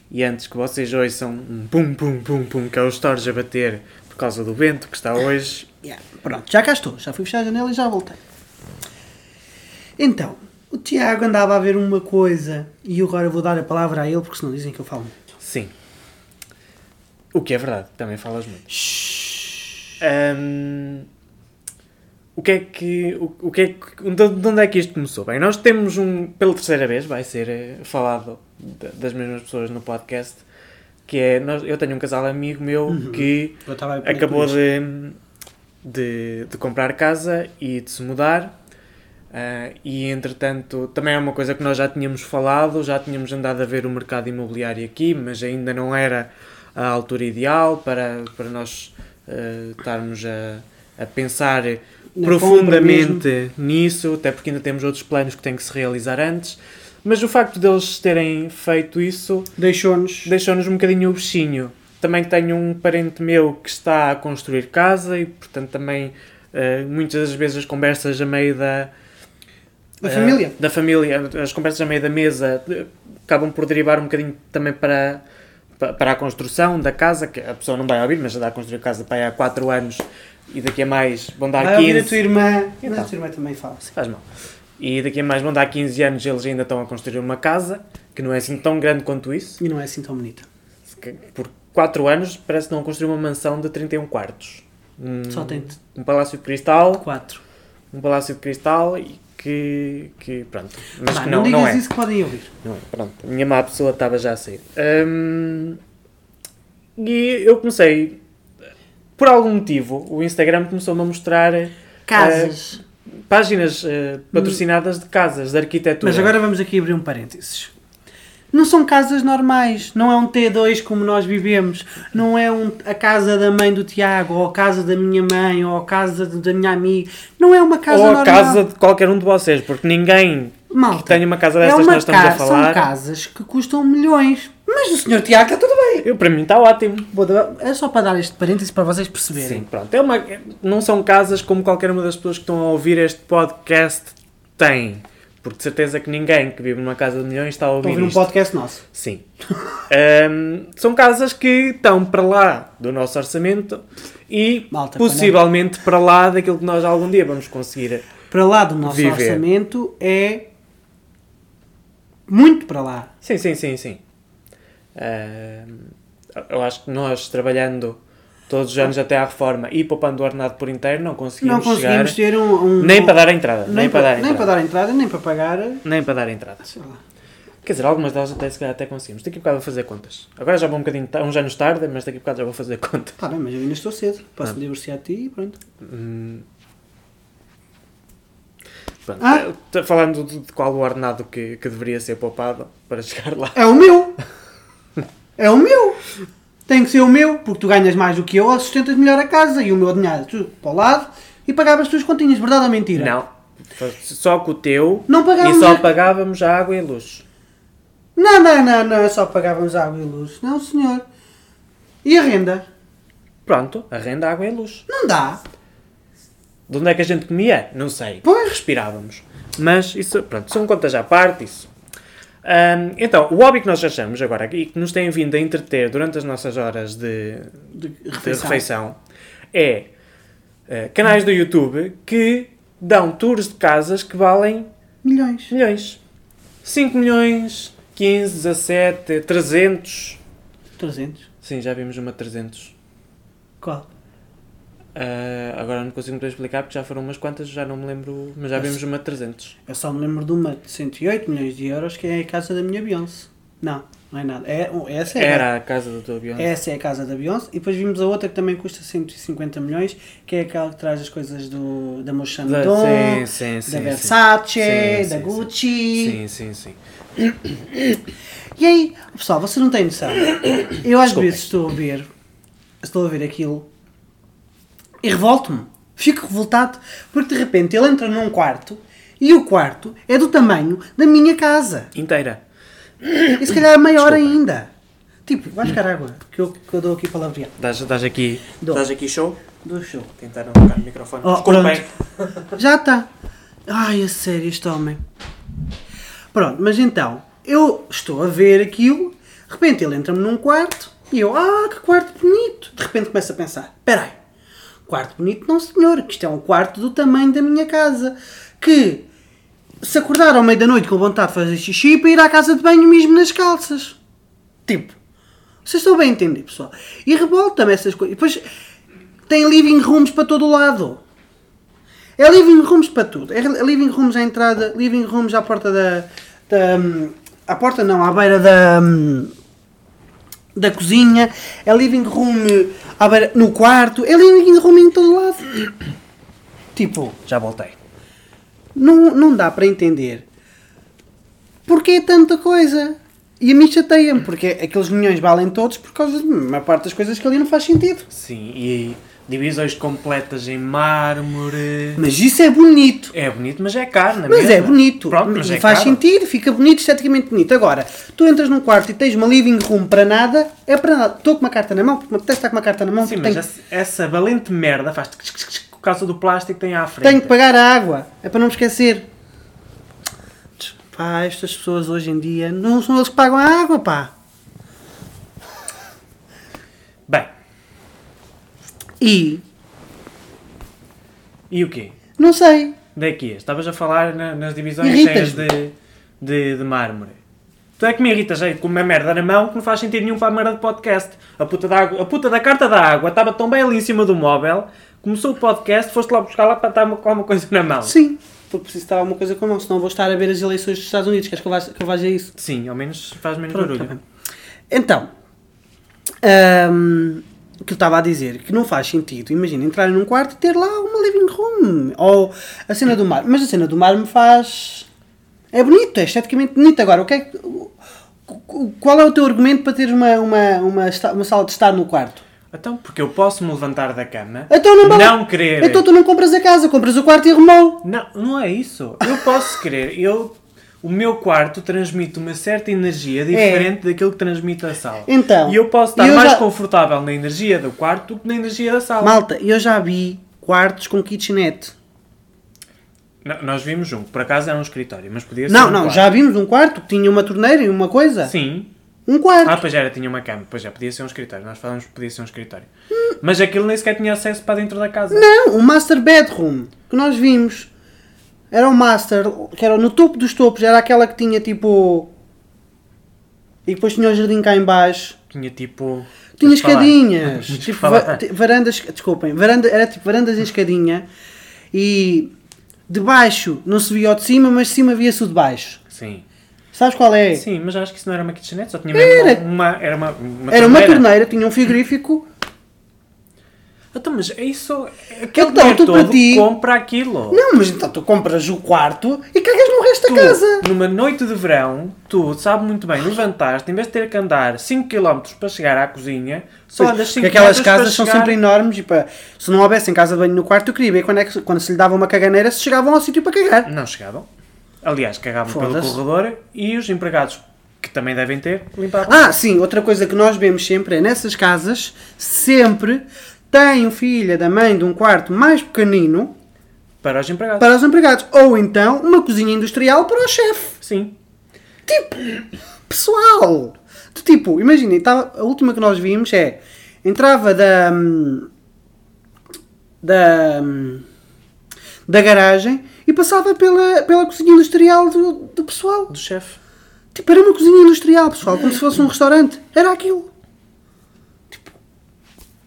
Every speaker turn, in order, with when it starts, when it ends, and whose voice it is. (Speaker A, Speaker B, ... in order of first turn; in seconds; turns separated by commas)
Speaker A: 0.1-5.7, Speaker B: 5.8-8.2, Speaker B: 10.0-15.2, Speaker A: 15.4-15.7, Speaker A: 17.3-18.7, Speaker B: 18.7-19.8, Speaker A: 20.0-21.1, Speaker A: 22.4-30.4, Speaker A: 31.1-35.2, Speaker B: 32.9-34.6, Speaker A: 35.8-38.5, Speaker A: 39.3-59.5, Speaker B: 52.1-53.2, Speaker B: 59.6-60.3, Speaker A: 60.2-68.9, Speaker B: 70.0-70.5, Speaker A: 70.0-75.2, Speaker A: 75.8-82.2, Speaker B: 81.6-83.9, Speaker A: 82.8-83.1, Speaker A: 84.0-84.3, Speaker A: 84.8-89.6, Speaker B: 89.6-90.5, Speaker A: 90.9-97.1, Speaker B: 95.3-95.7, Speaker B: 97.0-97.4, Speaker A: 97.9-101.8, Speaker B: 101.1-102.5, Speaker A: 102.6-105.8, Speaker A: 107.0-108.2, Speaker A: 109.2-112.6, Speaker B: 112.1-112.8, Speaker A: 113.3-116.4, Speaker B: 114.3-114.6, Speaker B: 116.0-117.7, Speaker B: 118.5-128.6, Speaker A: 127.9-132.9, Speaker B: 130.7-136.1, Speaker A: 136.0-137.1, Speaker B: 137.1-139.7, Speaker A: 139.4-148.3, Speaker B: 147.8-148.8, Speaker A: 148.9-149.2, Speaker A: 149.9-158.1, Speaker B: 154.7-155.4, Speaker B: 158.3-160.5, Speaker A: 158.8-159.4, Speaker B: 162.3-163.1, Speaker A: 163.2-164.0, Speaker A: 164.9-172.2, Speaker B: 171.4-175.8, Speaker A: 172.8-174.5, Speaker A: 175.8-176.7, Speaker B: 176.7-177.0, Speaker A: 177.6-183.2, Speaker B: 183.2-185.6, Speaker A: 185.8-186.4, Speaker A: 189.1-193.7, Speaker B: 189.2-189.4, Speaker B: 193.6-194.2, Speaker B: 195.4-196.0, Speaker B: 196.7-203.2, Speaker A: 202.9-207.2, Speaker B: 205.1-205.9, Speaker B: 208.2-211.1, Speaker B: 212.0-212.7, Speaker A: 213.4-214.8, Speaker B: 214.9-215.4, Speaker A: 216.7-221.7, Speaker B: 218.2-218.6, Speaker A: 222.4-227.6, Speaker B: 227.8-228.6, Speaker A: 228.2-229.0, Speaker A: 229.5-229.9, Speaker A: 230.7-234.7, Speaker B: 235.0-235.5, Speaker A: 235.5-236.0, Speaker A: 236.6-240.2, Speaker B: 240.8-241.2, Speaker A: 241.4-242.8, Speaker B: 243.6-243.9, Speaker A: 244.9-249.6, Speaker B: 249.7-255.5, Speaker A: 255.1-256.5, Speaker B: 256.4-266.2, Speaker A: 262.4-267.6, Speaker B: 268.6-272.1, Speaker A: 270.7-271.4, Speaker B: 272.8-273.7, Speaker B: 275.0-281.9, Speaker A: 281.9-282.4, Speaker A: 283.0-284.4, Speaker B: 283.4-284.7, Speaker B: 285.2-287.5, Speaker A: 287.6-289.4, Speaker B: 289.6-290.1, Speaker A: 290.2-292.6, Speaker B: 291.2-291.9, Speaker B: 292.6-293.1, Speaker B: 293.7-295.0, Speaker B: 296.3-304.2, Speaker B: 304.9-309.1, Speaker B: 309.8-314.0, Speaker B: 314.7-314.9, Speaker B: 315.6-318.4, Speaker B: 319.3-321.0, Speaker B: 322.2-329.3, Speaker B: 330.6-335.7, Speaker B: 336.8-337.2, Speaker A: 337.2-337.8, Speaker B: 338.8-340.2, Speaker B: 341.7-348.1, Speaker A: 348.1-352.0, Speaker B: 352.0-353.1, Speaker A: 353.1-356.0, Speaker B: 354.3-363.4, Speaker A: 363.0-367.3, Speaker B: 367.0-369.1, Speaker B: 370.6-374.1, Speaker B: 379.0-379.4, Speaker A: 381.5-382.0, Speaker B: 382.2-382.8, Speaker A: 382.9-387.2, Speaker B: 384.8-385.5, Speaker A: 387.8-397.9, Speaker B: 397.9-402.3, Speaker A: 402.4-403.9, Speaker B: 403.5-404.0, Speaker B: 404.7-405.1, Speaker B: 406.2-414.9, Speaker B: 415.5-417.7, Speaker B: 418.3-422.2, Speaker A: 422.5-425.8, Speaker B: 424.5-427.8, Speaker A: 427.8-439.2, Speaker B: 433.3-433.7, Speaker B: 435.1-436.4, Speaker B: 439.0-441.7, Speaker A: 443.2-446.1, Speaker B: 445.5-448.3, Speaker A: 448.3-448.7, Speaker B: 449.1-449.6, Speaker A: 449.4-452.7, Speaker A: 453.2-455.3, Speaker B: 455.1-457.7, Speaker B: 458.5-462.1, Speaker B: 463.6-465.2, Speaker A: 465.3-468.2, Speaker B: 466.4-471.1, Speaker B: 471.7-472.3, Speaker B: 472.9-475.8, Speaker A: 475.9-476.2, Speaker B: 476.7-477.4, Speaker A: 477.3-481.1, Speaker B: 478.9-479.4, Speaker B: 480.5-482.3, Speaker A: 483.9-487.4, Speaker B: 485.3-486.5, Speaker B: 487.3-490.7, Speaker A: 490.1-498.4, Speaker B: 496.8-503.7, Speaker A: 503.6-504.3, Speaker A: 504.8-509.4, Speaker B: 505.5-506.0, Speaker B: 509.1-516.4, Speaker A: 517.0-517.8, Speaker B: 517.6-520.8, Speaker A: 520.8-521.1, Speaker B: 521.9-528.5, Speaker B: 530.0-531.1, Speaker B: 532.1-536.1, Speaker A: 536.1-536.6, Speaker B: 537.1-540.3